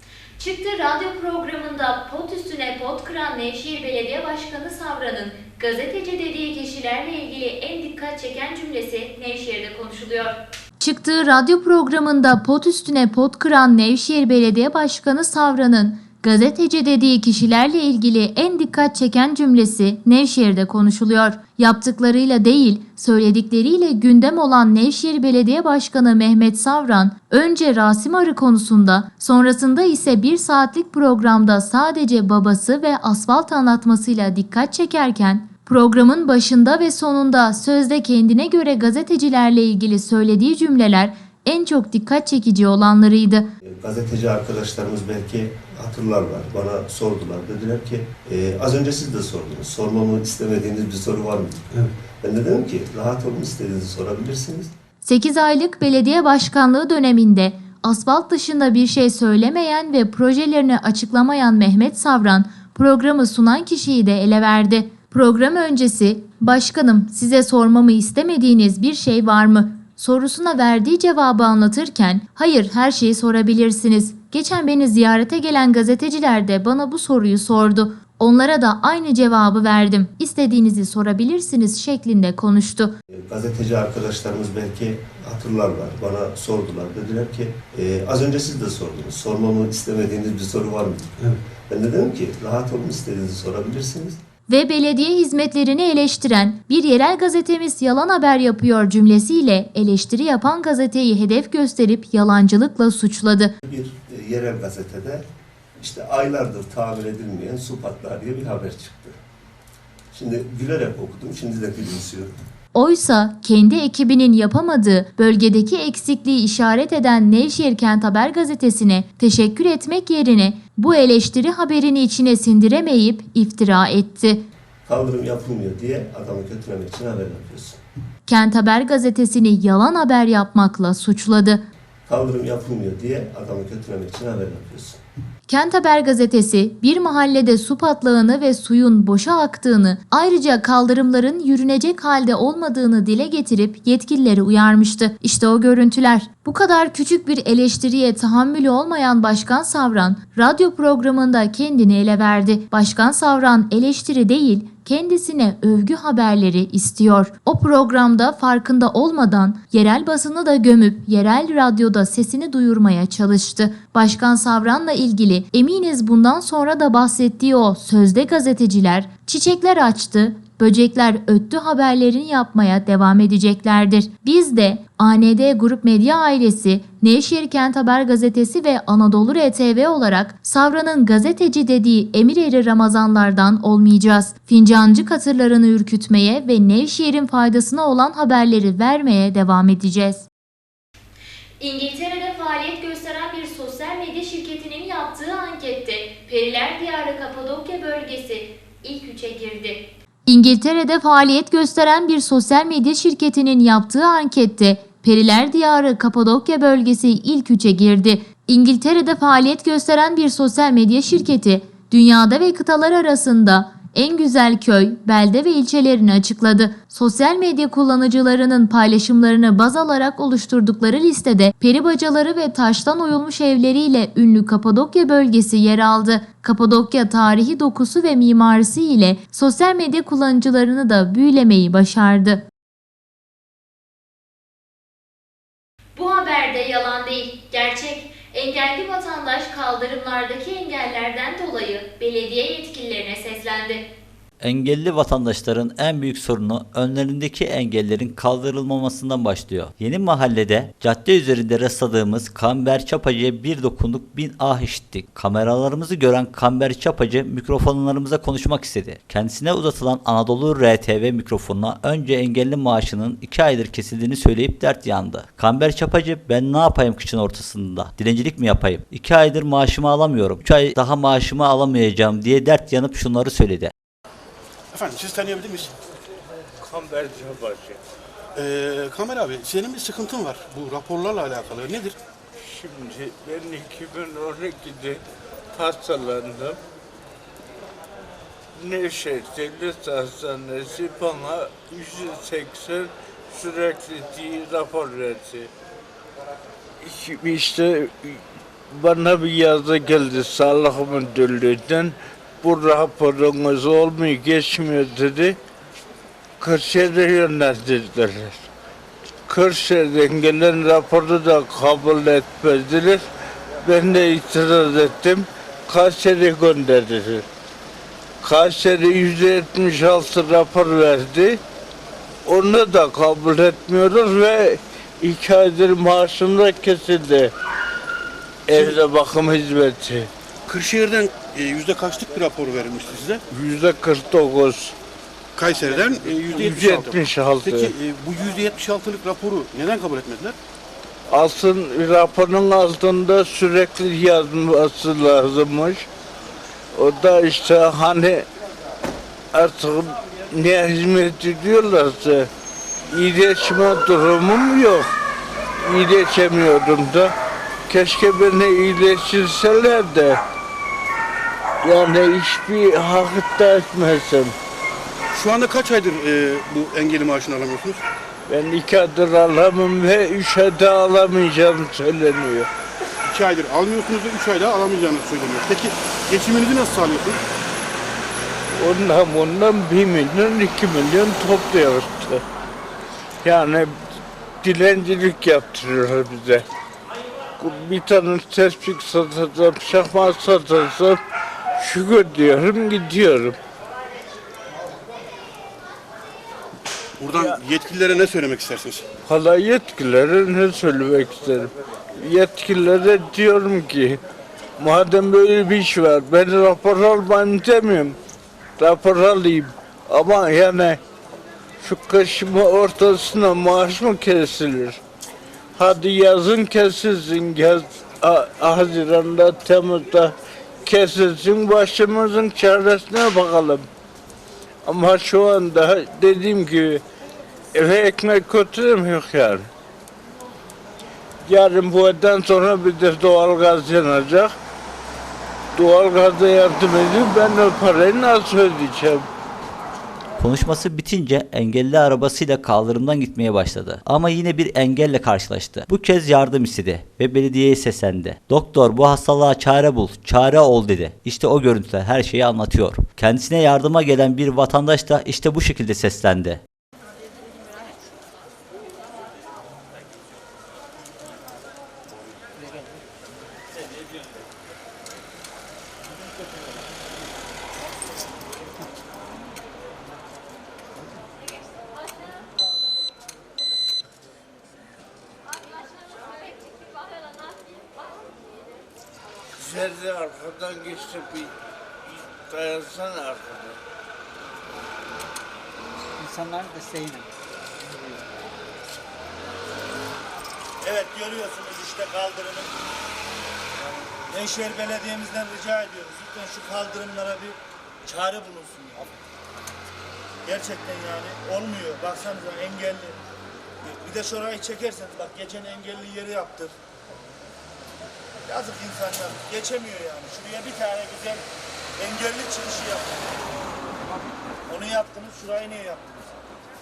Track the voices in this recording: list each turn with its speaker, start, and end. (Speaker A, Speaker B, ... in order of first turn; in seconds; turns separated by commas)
Speaker A: 0.4-43.5, Speaker B: 43.6-54.7, Speaker A: 55.0-83.0, Speaker B: 83.1-94.2, Speaker A: 94.5-103.5, Speaker B: 103.6-105.2, Speaker B: 105.8-109.2, Speaker B: 110.1-112.3, Speaker A: 112.7-124.4, Speaker B: 124.9-127.8, Speaker A: 128.3-131.6, Speaker B: 132.1-135.0, Speaker A: 135.5-190.3, Speaker A: 191.6-232.4, Speaker A: 236.0-243.9, Speaker C: 244.4-273.7, Speaker D: 274.7-275.7, Speaker E: 276.6-277.8, Speaker D: 278.4-282.0, Speaker E: 282.4-285.0, Speaker E: 285.5-286.6, Speaker E: 288.6-295.5, Speaker E: 296.8-305.4, Speaker E: 306.4-308.4, Speaker E: 309.3-313.1, Speaker E: 313.6-317.3, Speaker E: 318.2-321.4, Speaker E: 322.2-327.3, Speaker E: 328.5-330.1, Speaker D: 328.5-328.8, Speaker D: 330.5-333.2, Speaker E: 333.3-334.8, Speaker D: 335.4-340.4, Speaker E: 336.2-337.7, Speaker E: 341.1-345.9, Speaker E: 346.7-348.3, Speaker E: 349.3-352.3, Speaker E: 352.9-354.9, Speaker E: 355.6-357.1, Speaker E: 357.7-360.2, Speaker E: 361.6-364.4, Speaker D: 365.1-367.8, Speaker E: 368.3-372.5, Speaker D: 373.1-377.2, Speaker E: 378.5-382.2, Speaker E: 383.2-383.8, Speaker E: 384.4-386.5, Speaker E: 387.4-391.0, Speaker E: 391.6-393.4, Speaker D: 397.0-398.9, Speaker E: 399.1-404.0, Speaker E: 404.6-408.0, Speaker E: 408.6-410.8, Speaker E: 411.6-414.8, Speaker E: 415.6-423.7, Speaker E: 424.6-426.8, Speaker E: 427.5-429.5, Speaker E: 431.2-434.3, Speaker E: 435.6-439.1, Speaker C: 440.2-456.4, Speaker E: 479.4-481.3, Speaker E: 482.1-483.6, Speaker F: 490.6-492.5, Speaker F: 493.8-498.9, Speaker F: 500.2-503.0, Speaker F: 503.6-506.6, Speaker F: 508.3-511.2, Speaker F: 511.8-513.1, Speaker F: 514.5-516.0